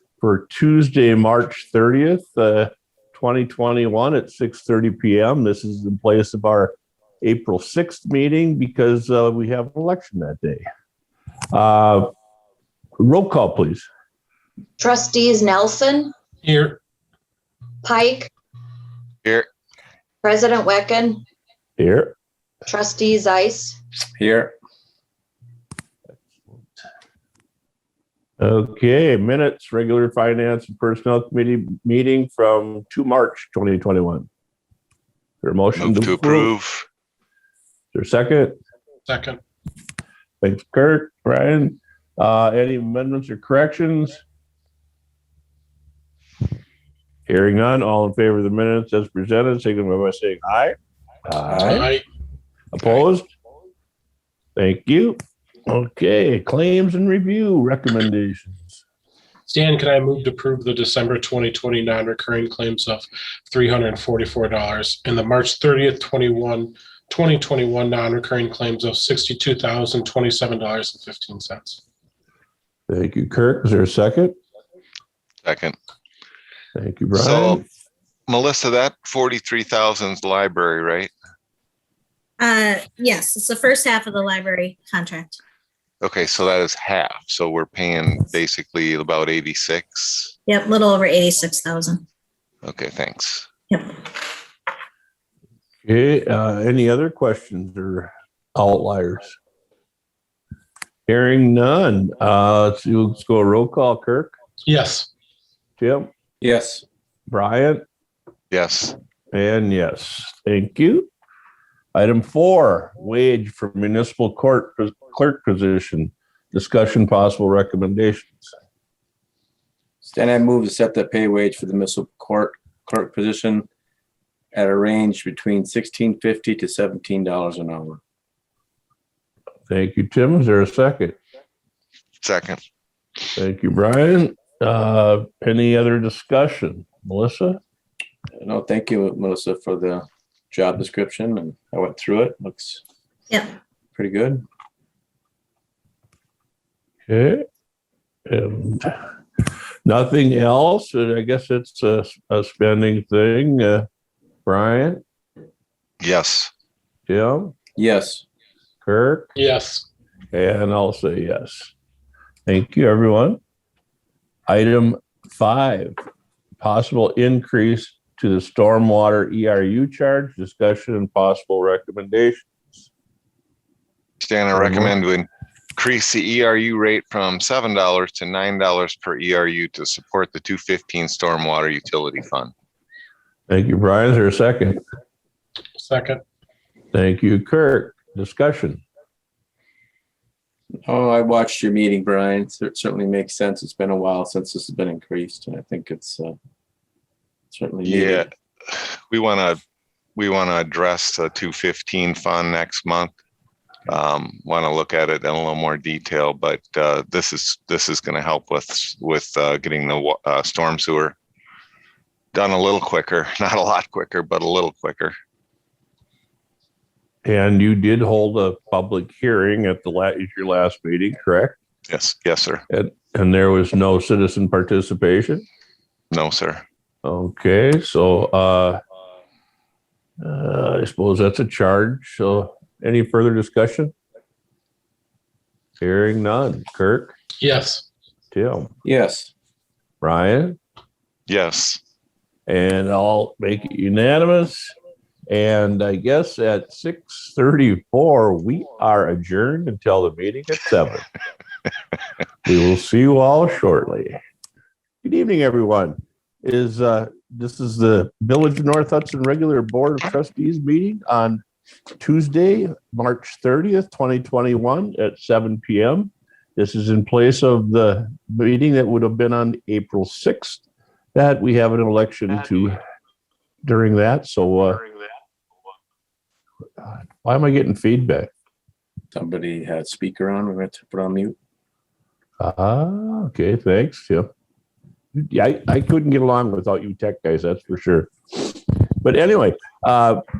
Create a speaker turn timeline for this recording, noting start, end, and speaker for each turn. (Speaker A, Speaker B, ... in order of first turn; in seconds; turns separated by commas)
Speaker A: 0.2-10.6, Speaker A: 11.5-12.1, Speaker A: 13.0-13.8, Speaker B: 14.8-16.1, Speaker C: 16.4-16.8, Speaker B: 17.8-18.3, Speaker B: 20.2-21.2, Speaker A: 21.8-22.1, Speaker B: 22.6-23.8, Speaker D: 24.2-24.5, Speaker A: 26.2-26.6, Speaker A: 28.4-34.3, Speaker A: 35.4-36.5, Speaker E: 35.8-36.9, Speaker A: 37.9-38.6, Speaker C: 39.1-39.4, Speaker A: 40.4-44.2, Speaker A: 47.3-50.8, Speaker A: 51.3-51.9, Speaker D: 51.5-51.8, Speaker C: 51.6-52.0, Speaker A: 52.7-53.3, Speaker A: 54.5-58.8, Speaker C: 59.5-71.8, Speaker A: 72.9-74.3, Speaker E: 75.4-75.8, Speaker A: 76.7-77.6, Speaker E: 77.1-77.6, Speaker E: 78.3-81.1, Speaker F: 82.4-85.4, Speaker E: 86.0-90.3, Speaker F: 90.5-92.0, Speaker E: 92.6-93.5, Speaker A: 95.8-99.3, Speaker A: 101.1-104.3, Speaker C: 104.7-105.1, Speaker A: 105.8-106.1, Speaker D: 106.4-106.8, Speaker A: 107.3-107.8, Speaker E: 108.5-109.0, Speaker A: 109.3-111.1, Speaker A: 111.9-118.5, Speaker D: 120.0-123.7, Speaker D: 124.5-128.0, Speaker A: 129.7-131.2, Speaker E: 132.2-132.6, Speaker A: 133.3-137.6, Speaker D: 138.4-142.8, Speaker D: 143.9-144.4, Speaker A: 147.1-147.4, Speaker A: 148.3-149.0, Speaker A: 149.8-153.9, Speaker A: 154.4-155.0, Speaker E: 156.0-156.5, Speaker A: 157.1-157.5, Speaker D: 157.8-158.2, Speaker A: 158.8-159.3, Speaker C: 159.3-159.8, Speaker A: 160.3-161.7, Speaker A: 162.5-163.4, Speaker A: 164.5-166.0, Speaker A: 166.6-172.7, Speaker E: 174.2-182.5, Speaker A: 174.5-174.9, Speaker A: 183.5-184.8, Speaker C: 185.8-186.2, Speaker A: 186.9-188.8, Speaker D: 190.8-196.3, Speaker D: 197.5-198.3, Speaker E: 197.8-199.6, Speaker E: 200.2-203.1, Speaker E: 203.9-211.1, Speaker E: 212.3-215.2, Speaker A: 217.2-221.5, Speaker E: 221.9-222.6, Speaker A: 222.7-225.4, Speaker E: 226.1-226.6, Speaker A: 227.0-228.8, Speaker A: 230.2-233.9, Speaker A: 235.8-237.2, Speaker C: 237.4-237.8, Speaker A: 238.3-238.7, Speaker D: 238.8-239.3, Speaker A: 240.0-240.6, Speaker E: 241.3-241.8, Speaker A: 242.5-244.7, Speaker A: 245.3-251.1, Speaker A: 252.4-254.2, Speaker A: 255.0-261.4, Speaker A: 262.0-270.6, Speaker A: 271.1-272.8, Speaker A: 273.6-274.8, Speaker A: 276.8-278.3, Speaker D: 279.1-281.4, Speaker A: 282.4-284.3, Speaker A: 285.1-290.2